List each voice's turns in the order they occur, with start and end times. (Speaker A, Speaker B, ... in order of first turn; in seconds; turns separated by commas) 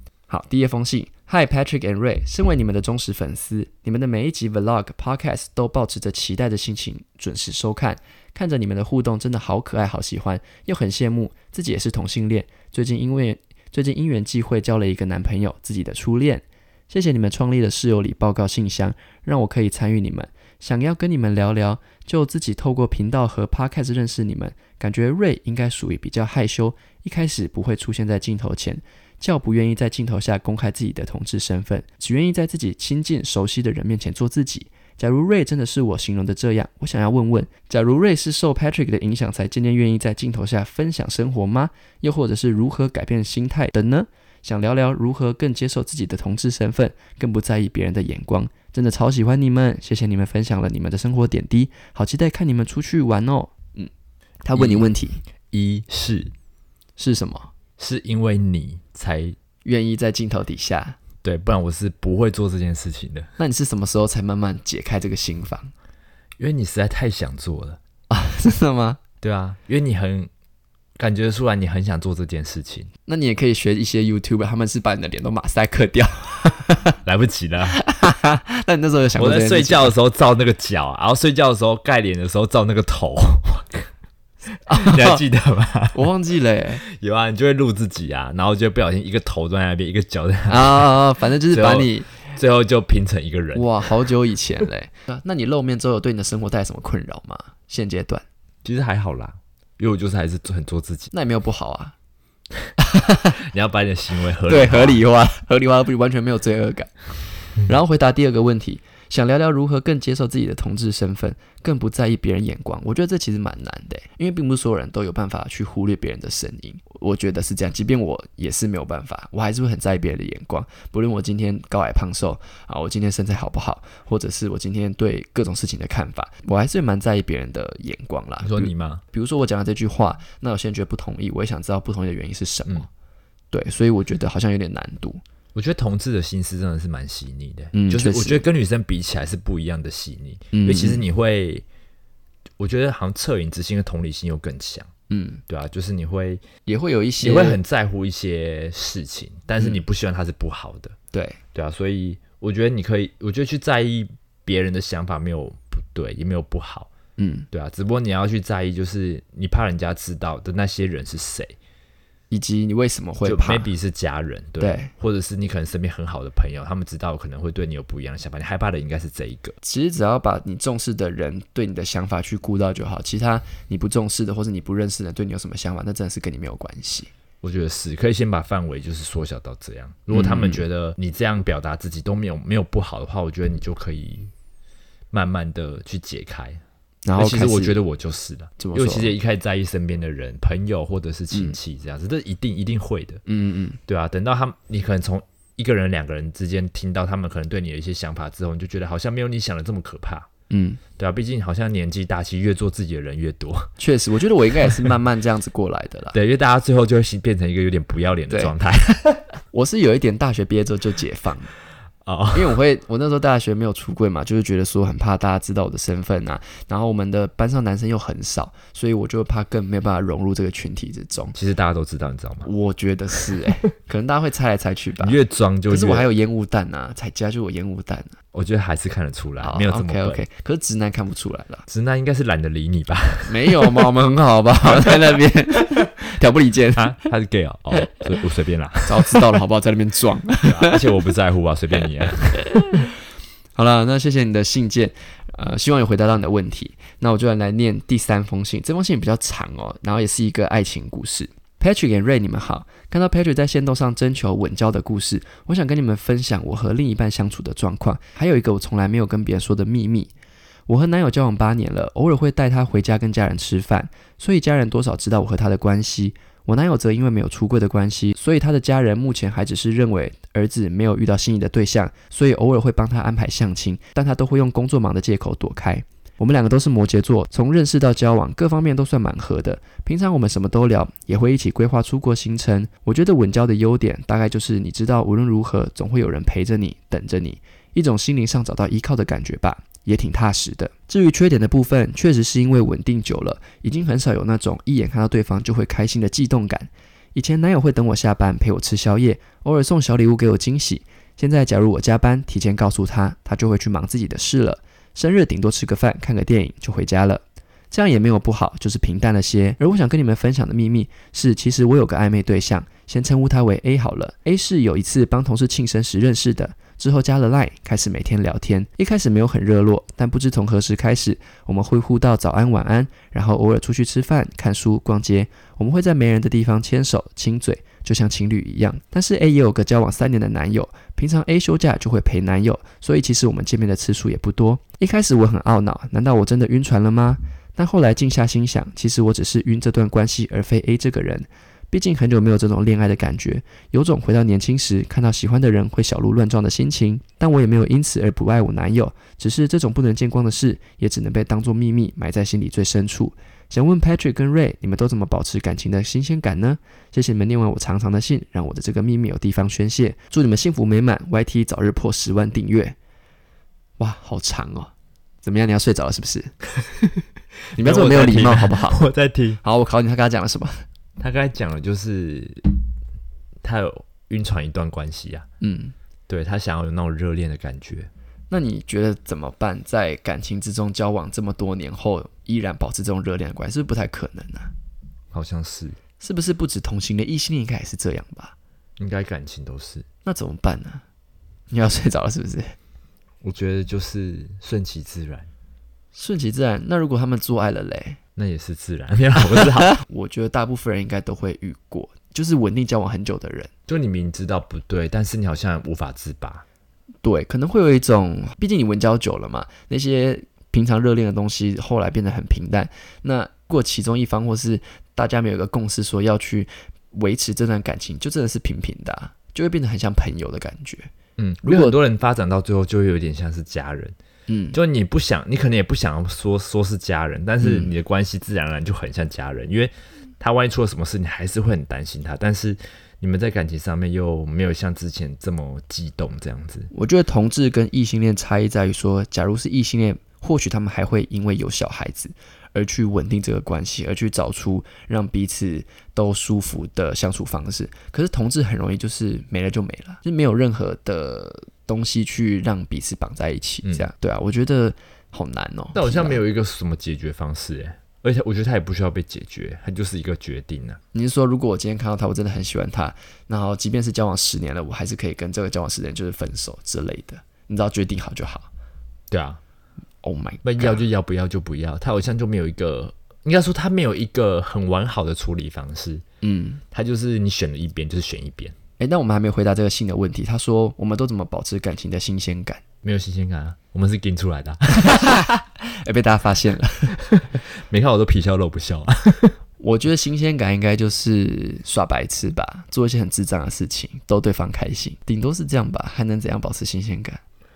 Speaker A: 0.3-53.9, Speaker A: 54.4-55.2, Speaker B: 54.5-54.8, Speaker B: 55.5-56.3, Speaker A: 57.0-57.5, Speaker B: 57.8-59.4, Speaker A: 59.6-61.0, Speaker B: 61.2-63.3, Speaker A: 63.4-65.7, Speaker B: 66.4-67.8, Speaker A: 68.1-69.0, Speaker B: 69.2-70.3, Speaker B: 71.0-72.9, Speaker A: 73.1-77.0, Speaker B: 77.0-77.8, Speaker A: 77.7-79.9, Speaker B: 79.2-83.9, Speaker A: 84.6-85.2, Speaker B: 84.7-86.0, Speaker A: 85.9-86.8, Speaker B: 86.8-90.9, Speaker A: 90.5-92.1, Speaker B: 91.5-93.9, Speaker A: 93.5-98.2, Speaker B: 98.6-101.1, Speaker A: 101.1-101.9, Speaker A: 102.8-103.4, Speaker B: 103.4-105.0, Speaker A: 104.5-106.9, Speaker A: 107.6-132.9, Speaker B: 128.4-129.0, Speaker A: 133.5-135.2, Speaker B: 135.5-141.6, Speaker A: 137.7-138.4, Speaker A: 140.5-141.0, Speaker B: 142.6-144.9, Speaker A: 145.1-145.4, Speaker B: 145.5-146.4, Speaker A: 146.7-147.6, Speaker B: 147.2-150.9, Speaker A: 151.1-151.4, Speaker B: 151.5-156.9, Speaker A: 157.2-157.5, Speaker B: 157.5-161.5, Speaker A: 162.3-163.7, Speaker B: 163.2-169.6, Speaker A: 164.6-164.9, Speaker A: 169.6-177.1, Speaker B: 177.4-184.3, Speaker A: 180.1-180.6, Speaker B: 185.1-186.6, Speaker A: 187.0-187.8, Speaker B: 187.2-193.2, Speaker A: 188.6-189.1, Speaker A: 191.3-191.6, Speaker A: 193.3-193.8, Speaker B: 193.9-200.3, Speaker A: 200.5-200.8, Speaker B: 201.0-203.7, Speaker A: 203.8-206.2, Speaker B: 206.1-209.2, Speaker A: 209.5-211.5, Speaker B: 212.0-212.6, Speaker A: 212.3-221.3, Speaker B: 221.3-222.5, Speaker A: 222.4-225.2, Speaker B: 225.0-226.1, Speaker A: 225.7-228.2, Speaker B: 228.3-230.2, Speaker A: 229.4-231.7, Speaker B: 231.7-233.9, Speaker A: 233.2-237.1, Speaker B: 236.8-239.2, Speaker A: 238.8-240.8, Speaker B: 240.4-242.8, Speaker A: 242.5-242.8, Speaker A: 243.6-260.1, Speaker A: 260.7-362.8, Speaker A: 363.8-364.7, Speaker A: 365.2-366.3, Speaker A: 367.6-368.8, Speaker B: 367.6-369.4, Speaker A: 369.4-370.6, Speaker B: 371.0-372.5, Speaker B: 373.4-375.2, Speaker A: 375.4-375.7, Speaker B: 376.1-377.9, Speaker A: 378.3-384.5, Speaker B: 385.1-385.8, Speaker A: 386.0-388.4, Speaker B: 388.8-389.9, Speaker A: 390.0-390.8, Speaker A: 391.5-392.6, Speaker B: 393.2-395.3, Speaker A: 395.9-398.0, Speaker B: 398.1-399.8, Speaker A: 399.6-403.5, Speaker B: 403.7-406.4, Speaker A: 407.0-420.9, Speaker B: 421.2-423.9, Speaker A: 421.4-421.8, Speaker A: 424.3-424.6, Speaker B: 424.5-436.7, Speaker A: 427.4-427.7, Speaker A: 436.7-456.2, Speaker B: 455.7-460.8, Speaker A: 460.9-468.5, Speaker B: 469.1-469.4, Speaker A: 470.0-470.8, Speaker B: 470.4-476.0, Speaker A: 476.2-476.6, Speaker B: 476.7-478.5, Speaker A: 478.8-482.6, Speaker B: 482.8-485.1, Speaker A: 484.7-487.0, Speaker B: 487.0-489.4, Speaker A: 489.6-497.2